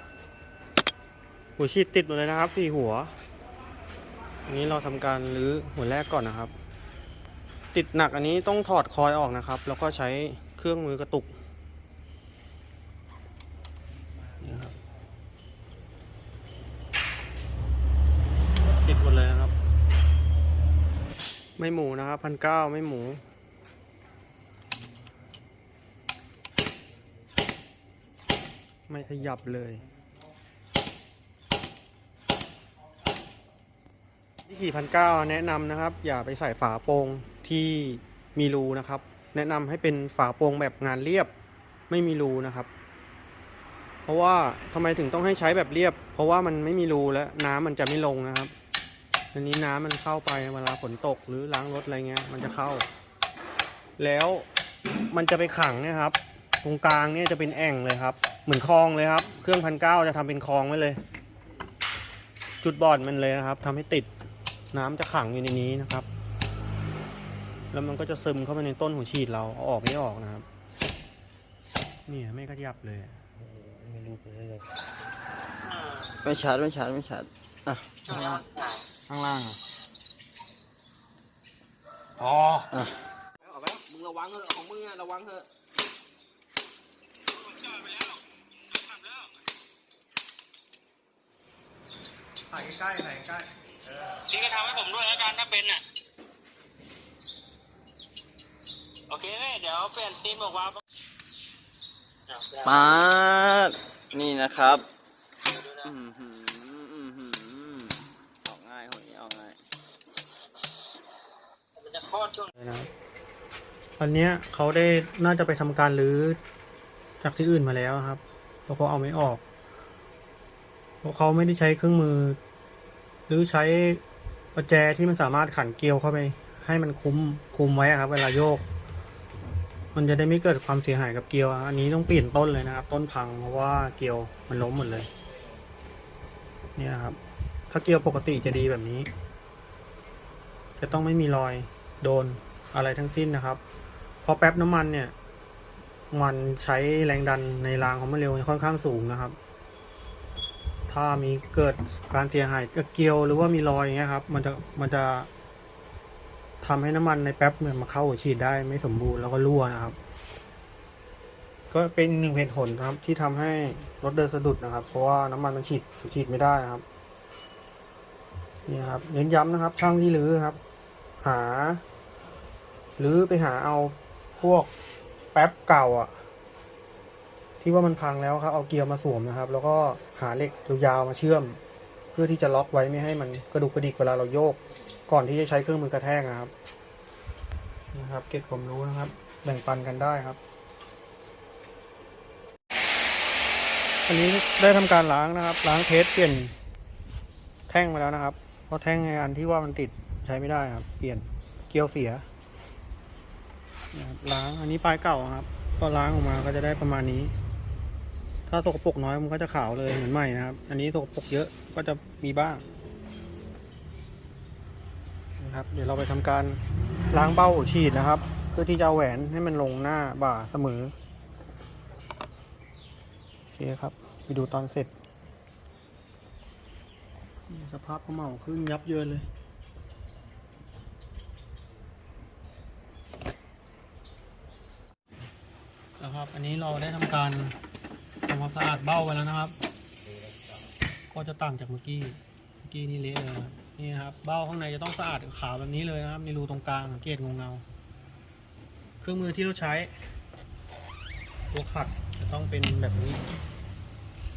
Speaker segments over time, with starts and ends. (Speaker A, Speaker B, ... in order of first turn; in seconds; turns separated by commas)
Speaker A: 1.6-3.1, Speaker A: 4.5-6.5, Speaker A: 7.7-11.4, Speaker A: 14.4-14.8, Speaker A: 18.8-19.6, Speaker A: 21.6-23.2, Speaker A: 28.9-29.8, Speaker A: 34.5-41.3, Speaker A: 41.9-42.7, Speaker A: 44.1-48.5, Speaker A: 49.3-52.9, Speaker A: 54.0-54.5, Speaker A: 55.1-61.0, Speaker A: 62.6-64.1, Speaker A: 64.7-66.1, Speaker A: 67.7-70.5, Speaker A: 72.1-73.2, Speaker A: 73.8-74.6, Speaker B: 76.2-78.5, Speaker A: 79.1-79.6, Speaker A: 82.2-82.7, Speaker C: 83.4-85.5, Speaker D: 87.5-88.2, Speaker D: 88.8-89.3, Speaker A: 92.5-93.5, Speaker D: 94.1-95.8, Speaker D: 99.1-100.8, Speaker B: 102.5-104.8, Speaker B: 105.7-109.6, Speaker D: 111.9-112.5, Speaker A: 112.6-112.9, Speaker A: 114.0-116.4, Speaker A: 117.2-119.4, Speaker A: 121.0-122.4, Speaker A: 123.3-124.0, Speaker A: 124.5-128.7, Speaker A: 129.9-135.1, Speaker A: 136.8-137.2, Speaker A: 137.7-139.1, Speaker A: 140.8-143.6, Speaker A: 144.2-145.1, Speaker A: 146.1-149.4, Speaker A: 150.9-155.3, Speaker A: 156.6-160.0, Speaker A: 161.7-166.8, Speaker A: 168.7-170.6, Speaker A: 171.2-171.8, Speaker A: 173.0-174.7, Speaker A: 175.3-176.2, Speaker A: 177.6-181.6, Speaker A: 182.1-186.5, Speaker A: 187.9-190.4, Speaker A: 194.1-196.6, Speaker A: 197.7-202.3, Speaker A: 203.9-207.3, Speaker A: 208.5-212.6, Speaker A: 215.4-216.6, Speaker A: 217.1-220.9, Speaker A: 223.5-224.9, Speaker A: 227.5-229.3, Speaker A: 236.0-237.6, Speaker A: 238.3-239.6, Speaker A: 241.1-247.6, Speaker A: 249.0-249.9, Speaker A: 251.5-253.2